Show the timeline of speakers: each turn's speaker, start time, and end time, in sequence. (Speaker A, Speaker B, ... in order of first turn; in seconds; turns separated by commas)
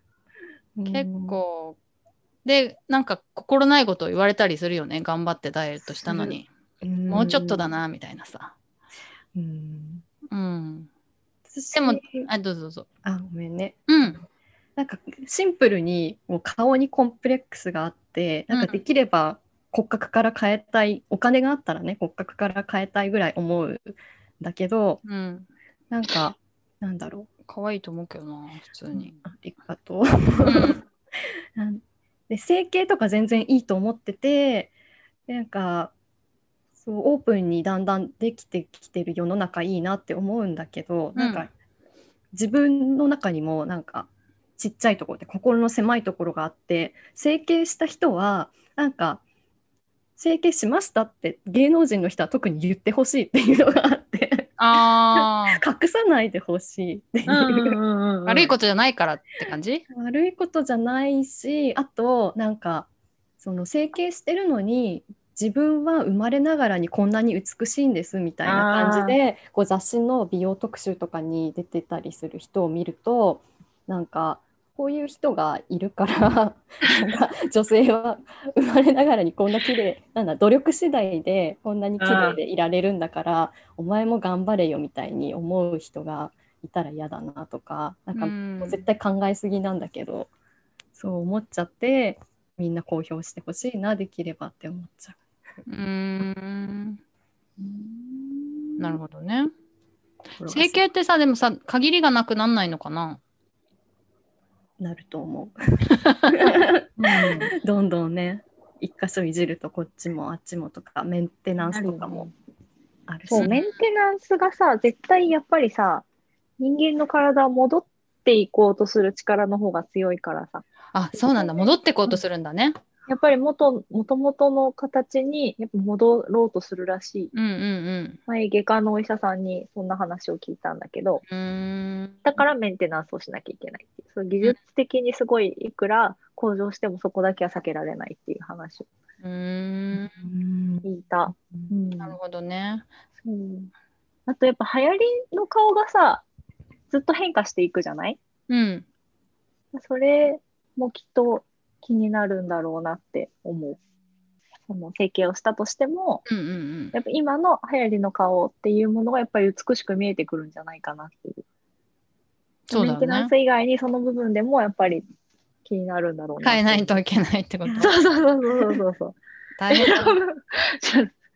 Speaker A: 0.8-1.4, Speaker B: 0.9-1.8, Speaker B: 2.4-6.5, Speaker A: 5.8-7.7, Speaker B: 7.1-8.5, Speaker A: 9.3-10.0, Speaker B: 10.3-10.9, Speaker A: 11.5-12.3, Speaker B: 11.7-12.8, Speaker A: 13.0-14.1, Speaker B: 13.9-14.2, Speaker A: 14.8-25.0, Speaker B: 18.5-18.8, Speaker B: 25.0-25.5, Speaker A: 25.9-27.3, Speaker B: 27.4-29.1, Speaker C: 28.9-29.2, Speaker A: 29.2-30.8, Speaker B: 30.4-30.8, Speaker A: 31.6-34.7, Speaker A: 35.3-35.9, Speaker A: 36.8-41.5, Speaker B: 41.1-41.5, Speaker A: 42.3-49.2, Speaker A: 50.2-57.8, Speaker B: 54.6-55.6, Speaker C: 57.3-58.5, Speaker B: 58.2-59.8, Speaker A: 59.9-62.9, Speaker A: 63.4-90.3, Speaker C: 68.4-69.2, Speaker C: 82.0-82.4, Speaker B: 88.2-88.9, Speaker A: 91.0-95.2, Speaker B: 95.7-97.0, Speaker C: 97.6-99.0, Speaker B: 98.8-99.5, Speaker A: 100.4-100.8, Speaker B: 100.5-103.2, Speaker A: 104.8-105.5, Speaker B: 106.1-106.5, Speaker A: 106.3-112.3, Speaker C: 107.0-107.5, Speaker C: 111.6-112.3, Speaker A: 113.1-113.5, Speaker C: 113.2-116.0, Speaker B: 113.3-113.7, Speaker C: 116.6-120.6, Speaker B: 120.9-122.8, Speaker C: 123.1-127.3, Speaker B: 127.3-128.2, Speaker C: 128.3-131.2, Speaker B: 131.3-132.2, Speaker C: 132.2-138.9, Speaker B: 139.2-140.2, Speaker A: 140.0-141.7, Speaker C: 140.8-142.2, Speaker B: 142.0-142.9, Speaker C: 143.2-143.7, Speaker C: 144.3-146.2, Speaker C: 146.9-148.2, Speaker B: 148.5-148.8, Speaker C: 149.7-153.8, Speaker C: 154.7-156.2, Speaker B: 156.3-156.9, Speaker C: 156.9-161.4, Speaker B: 162.7-163.3, Speaker C: 162.7-165.0, Speaker C: 165.6-166.9, Speaker B: 166.4-167.9, Speaker C: 167.8-169.2, Speaker B: 169.6-170.2, Speaker C: 169.7-171.1